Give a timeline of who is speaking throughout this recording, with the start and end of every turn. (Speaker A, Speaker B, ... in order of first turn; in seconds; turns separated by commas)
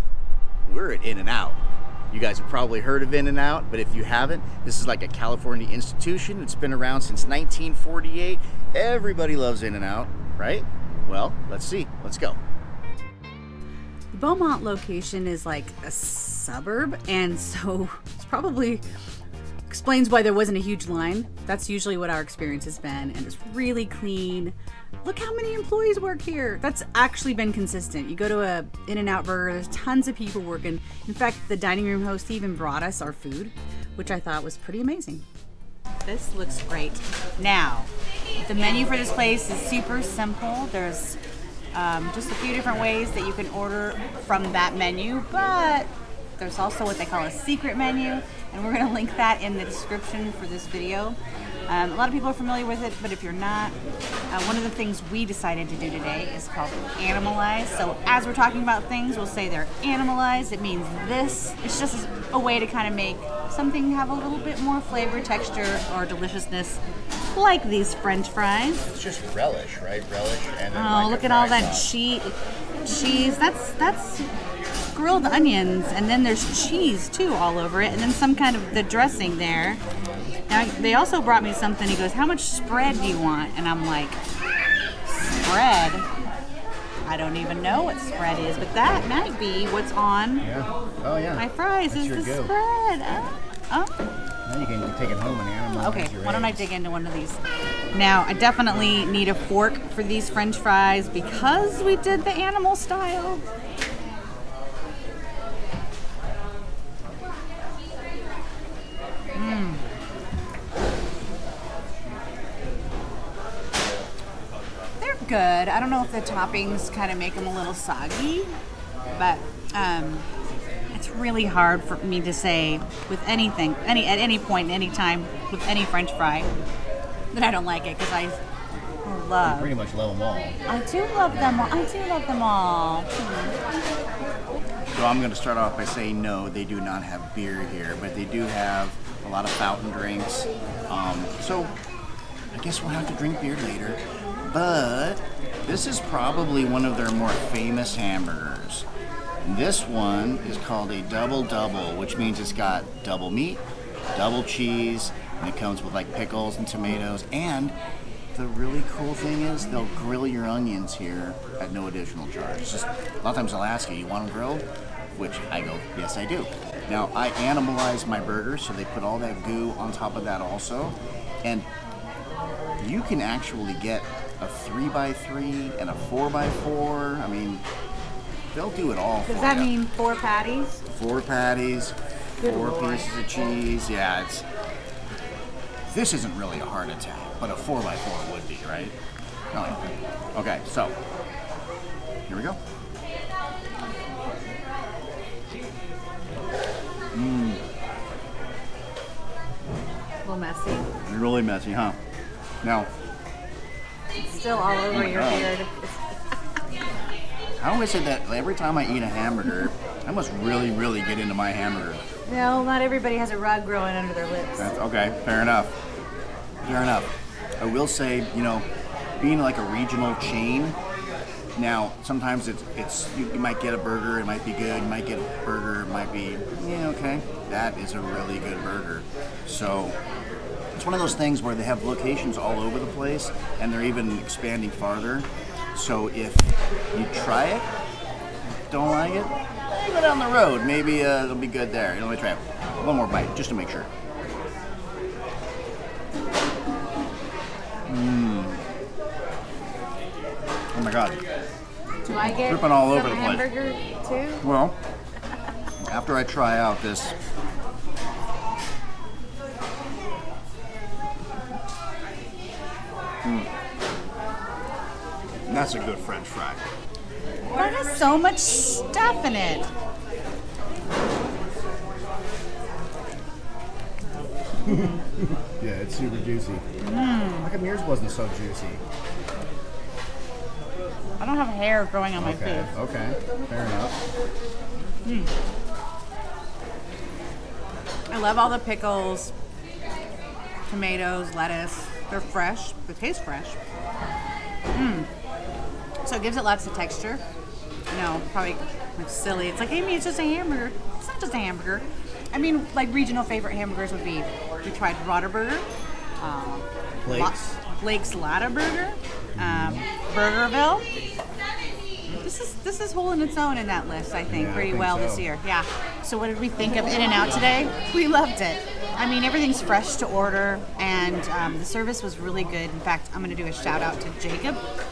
Speaker A: 0.6-12.4, Speaker B: 14.1-18.8, Speaker B: 19.7-35.2, Speaker B: 36.0-37.9, Speaker B: 38.4-41.2, Speaker B: 41.7-51.2, Speaker B: 51.7-53.7, Speaker B: 54.3-66.8, Speaker B: 67.3-68.8, Speaker A: 68.8-71.9, Speaker B: 70.7-74.3, Speaker B: 74.9-79.8, Speaker B: 80.5-84.2, Speaker B: 85.0-86.1, Speaker B: 87.0-90.5, Speaker A: 90.4-92.5, Speaker B: 91.4-93.9, Speaker A: 94.5-96.7, Speaker B: 95.8-97.4, Speaker B: 97.9-103.4, Speaker B: 109.3-109.8, Speaker B: 115.0-118.6, Speaker B: 119.1-120.2, Speaker B: 120.9-126.5, Speaker B: 127.3-128.4, Speaker B: 129.0-129.7, Speaker A: 129.4-130.6, Speaker B: 130.7-133.5, Speaker A: 131.3-131.8, Speaker A: 134.9-141.7, Speaker A: 142.5-148.9, Speaker A: 149.4-153.6, Speaker A: 154.1-157.8, Speaker A: 158.3-171.7, Speaker A: 172.8-177.6, Speaker A: 178.5-179.7, Speaker B: 179.2-180.8, Speaker A: 180.9-184.4, Speaker B: 182.4-183.1, Speaker A: 185.9-189.0, Speaker A: 189.5-190.9, Speaker A: 192.3-192.6, Speaker A: 197.1-197.6, Speaker B: 200.2-200.9, Speaker A: 200.9-202.0, Speaker A: 202.6-202.9, Speaker B: 204.2-206.1, Speaker A: 204.9-205.5, Speaker A: 207.6-212.0, Speaker B: 212.2-214.7, Speaker A: 214.6-215.8, Speaker A: 216.6-218.7, Speaker A: 219.2-220.8, Speaker A: 221.6-230.0, Speaker A: 230.8-237.7, Speaker A: 238.7-243.9, Speaker A: 247.9-248.6, Speaker A: 250.7-251.2, Speaker B: 252.0-254.4, Speaker A: 252.1-253.5, Speaker A: 254.4-254.8, Speaker A: 255.8-257.1, Speaker A: 263.2-263.5, Speaker A: 265.4-266.6, Speaker B: 267.5-269.7, Speaker A: 274.6-276.6, Speaker B: 276.8-277.5, Speaker A: 277.4-278.8, Speaker B: 281.2-282.7, Speaker A: 282.2-284.0, Speaker B: 288.1-289.3, Speaker B: 290.7-293.6, Speaker B: 294.7-295.1, Speaker B: 296.0-297.2, Speaker B: 297.9-305.7, Speaker B: 306.2-310.8, Speaker A: 307.0-307.5, Speaker A: 309.3-309.8, Speaker B: 312.2-324.6, Speaker A: 314.3-315.3